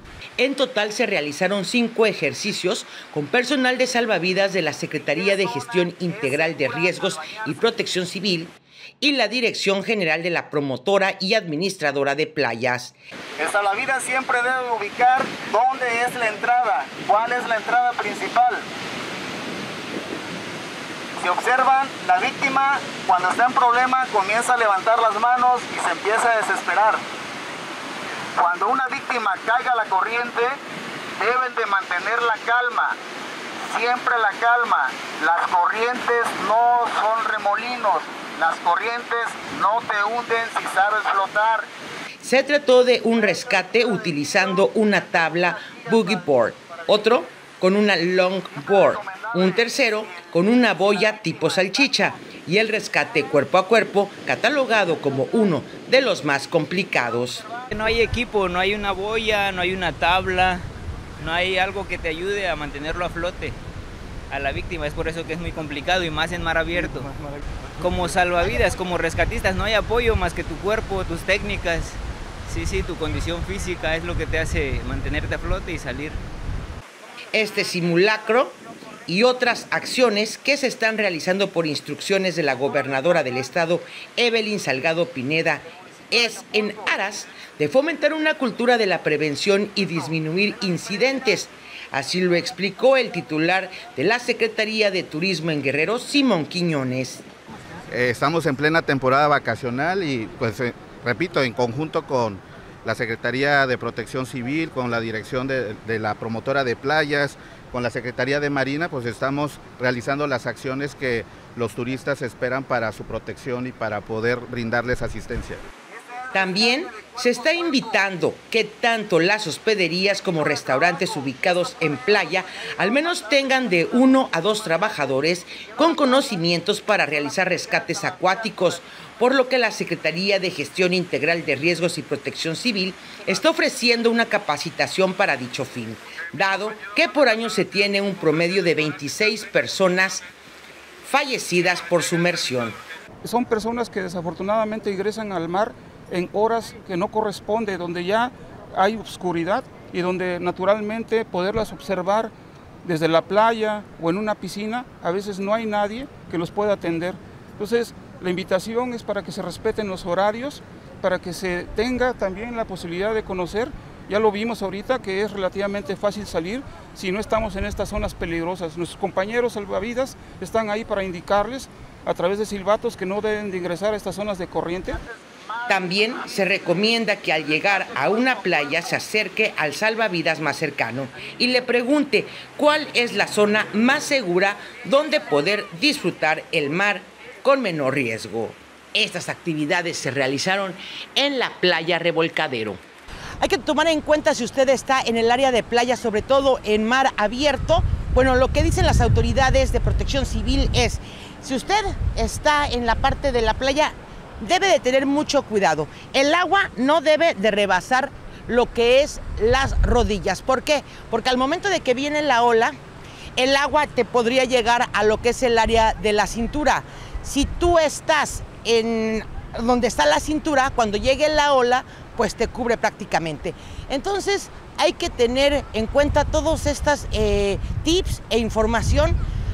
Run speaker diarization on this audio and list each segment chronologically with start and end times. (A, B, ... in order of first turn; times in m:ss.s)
0:00.4-0:13.0 A
0:05.4-0:05.8 B
0:13.4-0:18.6 B
0:21.2-0:27.0 B
0:28.4-0:30.6 B
0:31.2-0:33.0 B
0:33.6-0:41.7 B
0:42.2-0:57.5 A
0:48.7-0:49.6 B
0:57.7-1:00.7 C
1:01.2-1:03.6 C
1:04.3-1:07.1 C
1:07.8-1:16.2 C
1:17.3-1:37.2 A
1:37.9-1:55.6 D
1:56.3-2:20.3 A
2:21.0-2:22.8 A
2:23.2-2:32.3 E
2:32.8-2:55.0 E
2:55.6-3:12.8 A
3:13.4-3:32.8 A
3:33.4-3:49.2 A